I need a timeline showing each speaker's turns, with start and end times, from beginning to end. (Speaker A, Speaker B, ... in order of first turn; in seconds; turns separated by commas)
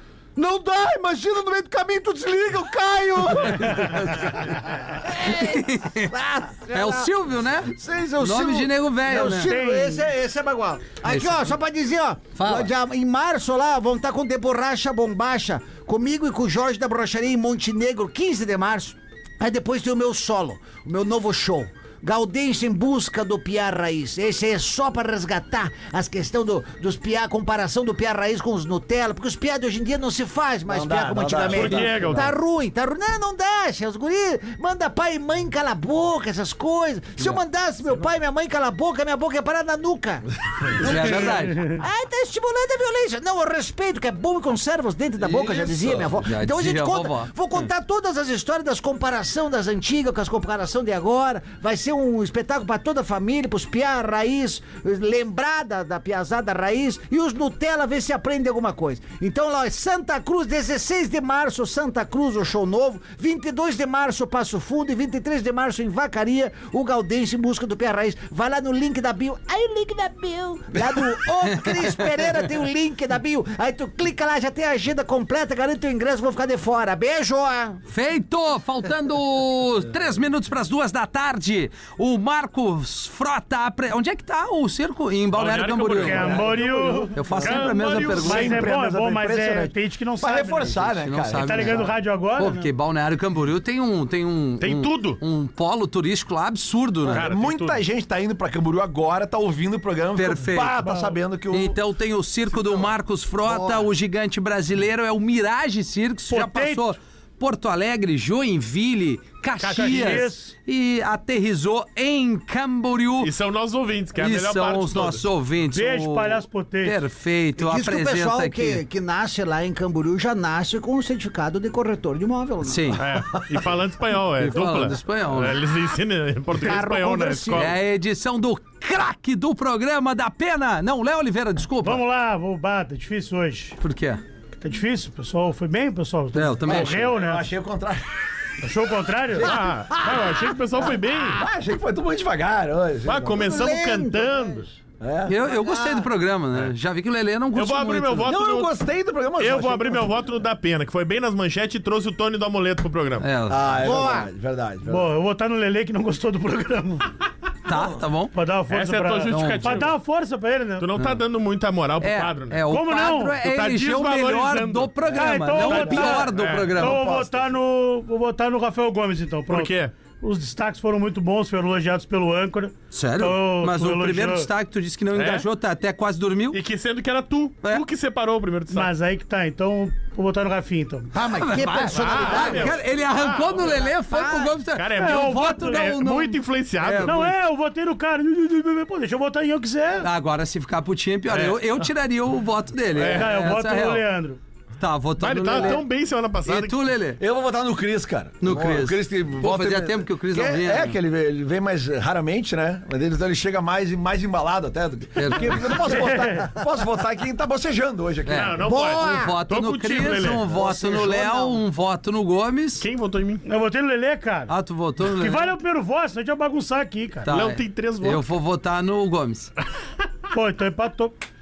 Speaker A: 0.4-77.8, Speaker B: 3.6-4.3, Speaker B: 5.2-6.1, Speaker B: 6.7-9.5, Speaker C: 9.2-10.1, Speaker B: 11.1-11.5, Speaker B: 12.4-12.7, Speaker D: 30.7-32.4, Speaker E: 31.5-32.3, Speaker B: 40.8-41.6, Speaker B: 45.2-47.3, Speaker D: 70.8-71.2, Speaker B: 77.9-88.7, Speaker E: 85.3-86.7, Speaker C: 86.0-92.7, Speaker E: 87.4-88.6, Speaker D: 88.2-91.9, Speaker B: 91.0-97.3, Speaker E: 94.6-95.2, Speaker E: 97.1-97.8, Speaker D: 97.2-101.8, Speaker B: 100.2-100.8, Speaker C: 100.8-101.2, Speaker B: 101.5-113.3, Speaker A: 103.4-103.9, Speaker C: 106.3-106.9, Speaker E: 109.6-110.3, Speaker C: 109.8-110.5, Speaker E: 113.2-115.2, Speaker B: 114.2-118.8, Speaker C: 115.7-117.0, Speaker A: 117.6-123.1, Speaker B: 122.6-123.0, Speaker E: 123.0-127.8, Speaker B: 124.4-125.6, Speaker A: 126.5-127.7, Speaker B: 127.5-132.0, Speaker C: 131.8-133.8, Speaker B: 133.8-134.2, Speaker C: 134.6-137.5, Speaker B: 136.3-137.2, Speaker D: 136.7-138.1, Speaker C: 138.6-139.6, Speaker D: 139.3-143.6, Speaker E: 139.4-141.4, Speaker E: 143.1-144.7, Speaker A: 143.3-144.7, Speaker D: 145.0-145.4, Speaker B: 145.3-148.3, Speaker A: 145.4-146.1, Speaker E: 147.6-148.7, Speaker D: 148.3-150.1, Speaker E: 149.4-153.3, Speaker B: 153.2-153.9, Speaker D: 153.5-155.1, Speaker A: 153.8-154.3, Speaker C: 154.9-157.1, Speaker B: 157.7-158.3, Speaker C: 158.3-160.9, Speaker E: 158.7-159.9, Speaker B: 159.3-159.8, Speaker E: 160.8-162.6, Speaker B: 162.0-167.1, Speaker C: 162.7-163.4, Speaker E: 163.4-164.9, Speaker C: 165.1-174.5, Speaker D: 165.1-166.2, Speaker E: 165.6-166.7, Speaker D: 166.8-167.6, Speaker E: 169.5-169.9, Speaker B: 172.9-176.6, Speaker E: 175.1-175.5, Speaker E: 176.5-178.9, Speaker C: 178.7-181.1, Speaker A: 181.1-182.8, Speaker B: 181.4-187.3, Speaker E: 181.9-183.8, Speaker A: 183.6-184.6, Speaker E: 184.7-187.2, Speaker C: 185.0-186.0, Speaker C: 187.0-190.1, Speaker B: 190.0-194.1, Speaker E: 191.3-191.8, Speaker E: 193.0-193.3, Speaker C: 193.0-194.4, Speaker B: 194.8-195.8, Speaker E: 195.2-196.8, Speaker B: 196.4-197.2, Speaker D: 197.2-208.5, Speaker B: 198.4-201.0, Speaker B: 205.2-205.7, Speaker C: 205.9-206.5, Speaker B: 208.2-212.9, Speaker E: 208.3-210.4, Speaker A: 208.6-209.4, Speaker A: 210.4-211.6, Speaker E: 212.8-213.4, Speaker C: 213.4-217.3, Speaker B: 214.5-215.6, Speaker B: 217.2-219.5, Speaker E: 217.3-218.2, Speaker C: 220.3-221.2